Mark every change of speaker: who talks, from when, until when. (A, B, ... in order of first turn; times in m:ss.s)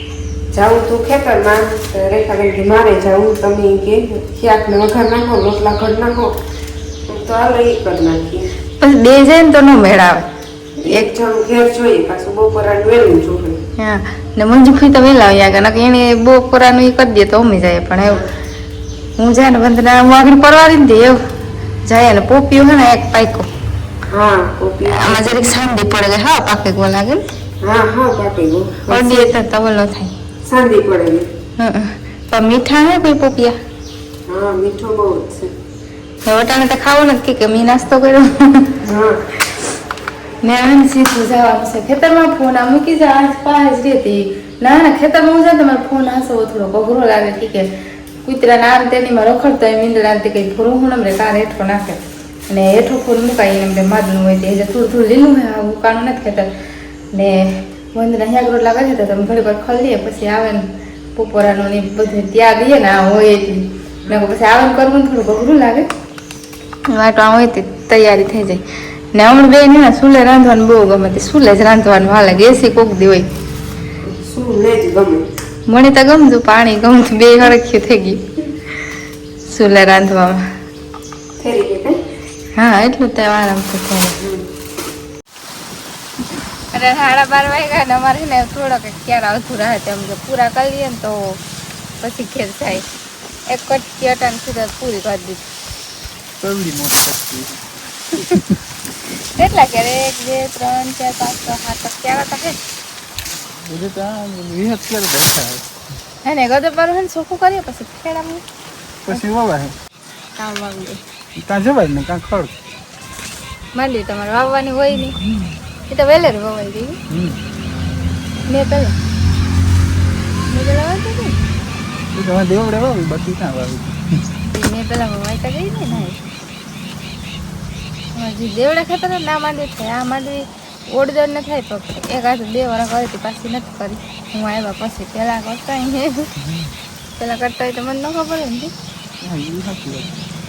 0:00.5-0:06.4 A
0:07.1-0:08.5 A
0:08.8-0:10.2 B
0:10.8-0:13.6 A
0:13.8-0:18.2 B
0:19.2-0:21.2 B
0:21.8-0:23.5 B
0:24.1-0:25.4 A
0:24.8-0:27.2 B
0:27.6-0:29.4 A
0:28.9-0:30.2 B
0:30.4-0:31.3 A
0:31.6-0:33.6 B
0:34.3-0:35.5 A
0:36.2-0:38.8 B
0:38.8-0:39.2 A
0:40.4-0:56.5 B
0:57.1-1:05.9 B
1:06.9-1:13.3 B
1:14.0-1:15.3 A
1:15.7-1:18.9 B
1:19.4-1:20.5 B
1:21.4-1:22.0 A
1:22.5-1:24.2 B
1:24.2-1:24.5 A
1:26.7-1:31.4 B
1:32.0-1:32.8 B
1:33.5-1:35.5 B
1:36.4-1:38.5 C
1:39.1-1:42.6 B
1:43.4-1:45.8 C
1:46.2-1:48.4 B
1:49.1-1:49.8 C
1:50.4-1:51.0 B
1:51.4-1:52.5 C
1:53.7-1:55.2 B
1:55.1-1:55.5 C
1:55.9-1:57.0 B
1:57.1-1:57.4 C
1:58.4-1:59.0 B
2:00.5-2:01.4 B
2:02.1-2:04.0 C
2:04.4-2:06.2 B
2:08.1-2:16.3 B
2:16.4-2:16.7 C
2:17.2-2:18.7 B
2:19.2-2:20.2 C